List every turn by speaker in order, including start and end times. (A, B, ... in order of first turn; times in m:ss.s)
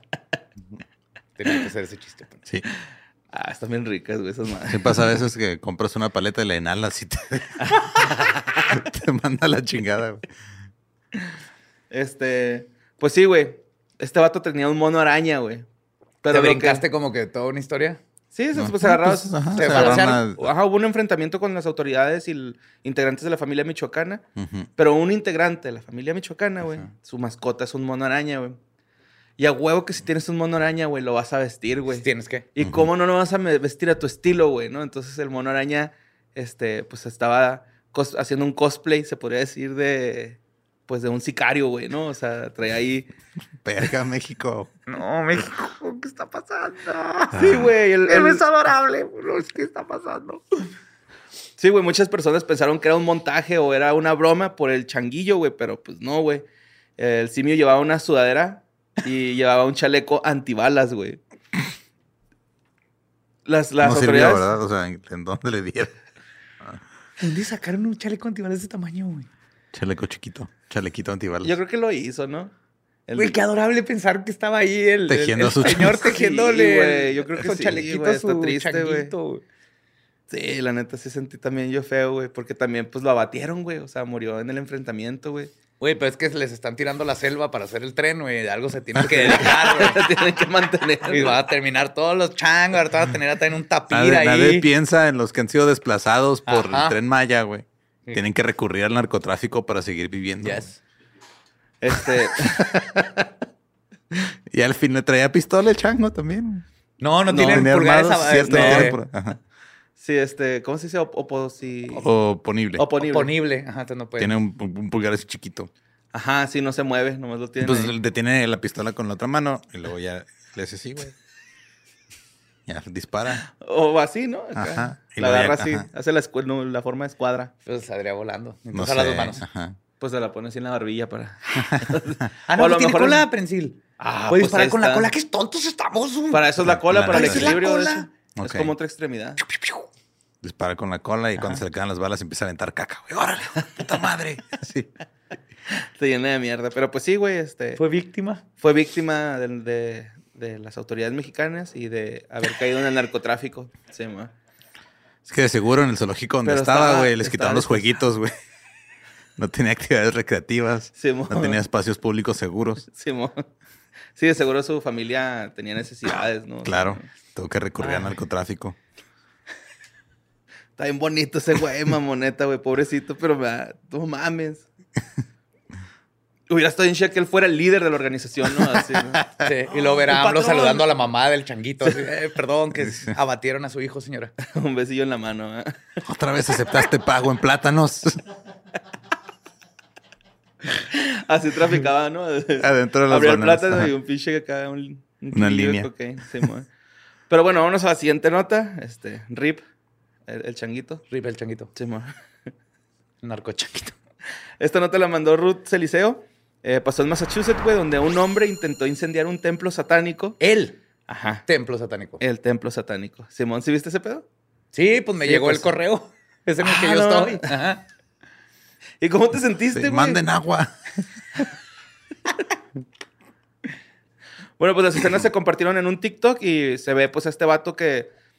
0:01.4-0:02.4 A
0:03.3-0:04.9 B
0:04.7-0:08.1 C
0:08.7-0:10.3 C
0:11.9-0:15.6 B
0:16.2-0:16.8 B
0:16.3-0:18.0 A
0:18.3-0:24.2 B
0:18.5-0:20.5 C
0:19.6-0:20.2 A
0:24.4-0:24.7 C
0:24.8-0:28.6 B
0:29.4-0:43.1 B
0:32.0-0:32.5 A
0:43.6-0:44.7 C
0:44.9-0:50.5 A
0:47.3-0:47.7 C
0:47.4-0:48.4 B
0:51.6-0:56.4 B
0:57.0-1:01.2 B
1:03.4-1:04.4 B
1:03.8-1:06.0 C
1:07.2-1:09.3 A
1:09.7-1:11.5 C
1:11.4-1:12.5 B
1:13.1-1:13.4 B
1:13.2-1:19.4 A
1:15.1-1:16.1 C
1:16.0-1:19.1 B
1:20.3-1:25.5 B
1:25.8-1:30.1 A
1:29.1-1:31.4 B
1:31.1-1:34.7 A
1:33.9-1:40.6 C
1:36.4-1:36.9 A
1:40.4-1:40.8 A
1:41.8-1:42.9 B
1:44.5-1:46.6 C
1:47.0-1:49.0 A
1:47.3-1:47.7 B
1:47.3-1:49.4 C
1:48.4-1:49.0 B
1:50.0-1:52.0 B
1:52.0-1:52.8 C
1:52.8-1:53.3 B
1:53.0-1:54.3 A
1:54.2-1:55.7 C
1:56.1-1:57.9 B
1:57.6-2:01.2 C
2:02.6-2:03.4 C
2:03.4-2:07.5 B
2:04.6-2:05.9 C
2:07.6-2:09.4 A
2:08.7-2:09.8 C
2:10.0-2:13.2 B
2:11.6-2:11.9 C
2:12.5-2:18.1 A
2:14.0-2:15.1 B
2:16.3-2:19.4 B
2:16.6-2:17.6 C
2:18.4-2:18.7 C
2:19.4-2:19.9 A
2:20.4-2:24.9 C
2:25.9-2:27.8 B
2:27.8-2:28.4 A
2:28.6-2:34.3 B
2:35.2-2:38.3 C
2:36.4-2:38.0 B
2:39.4-2:42.8 C
2:41.0-2:41.6 B
2:42.9-2:43.4 B
2:44.1-2:47.1 B
2:46.6-2:48.8 C
2:47.8-2:48.1 B
2:50.8-2:54.6 B
2:56.5-3:00.9 B
2:59.4-3:04.3 A
3:04.4-3:05.8 B
3:06.0-3:08.2 C
3:10.8-3:16.7 B
3:12.6-3:13.9 C
3:15.3-3:15.9 C
3:17.3-3:19.6 B
3:20.3-3:21.0 B
3:21.1-3:21.7 A
3:21.7-3:22.1 B
3:23.2-3:24.0 A
3:24.6-3:30.4 B
3:30.4-3:30.8 A
3:31.1-3:31.4 B
3:31.4-3:32.2 A
3:32.2-3:34.2 B
3:34.7-3:37.8 A
3:35.2-3:35.7 B
3:36.6-3:37.5 B
3:39.0-3:40.2 B
3:39.7-3:40.7 C
3:44.6-3:48.1 B